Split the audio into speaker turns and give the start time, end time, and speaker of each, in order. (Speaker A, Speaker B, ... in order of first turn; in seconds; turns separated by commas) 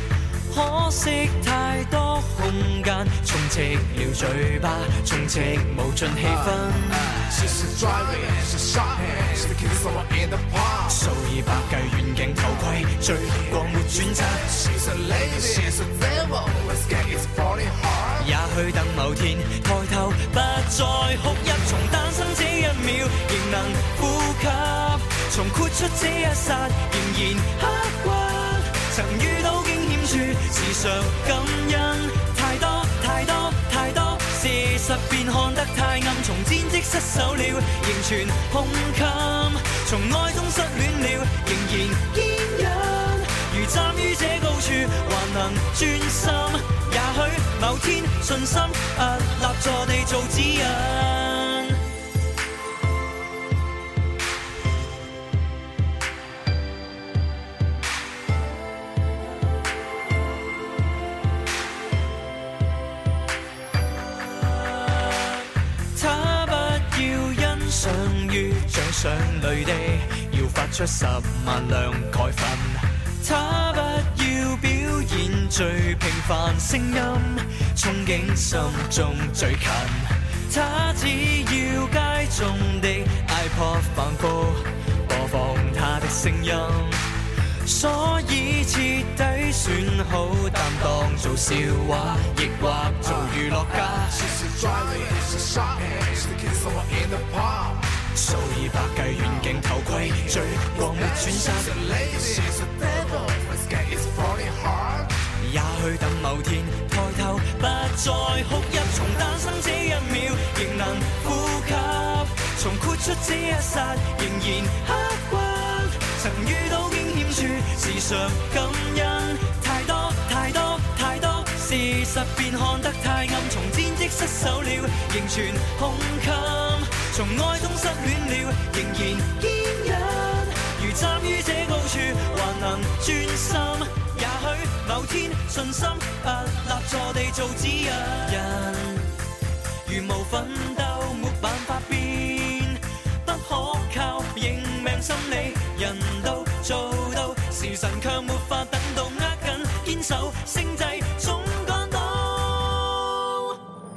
Speaker A: 0.5-7.3, Speaker B: 7.2-11.1, Speaker A: 10.9-14.6, Speaker B: 13.7-18.3, Speaker A: 18.2-51.8, Speaker A: 65.0-65.3, Speaker A: 66.0-87.0, Speaker A: 87.6-94.2, Speaker B: 93.0-93.3, Speaker B: 94.0-97.9, Speaker A: 98.1-101.9, Speaker B: 100.5-105.1, Speaker A: 105.4-139.1, Speaker A: 139.8-153.5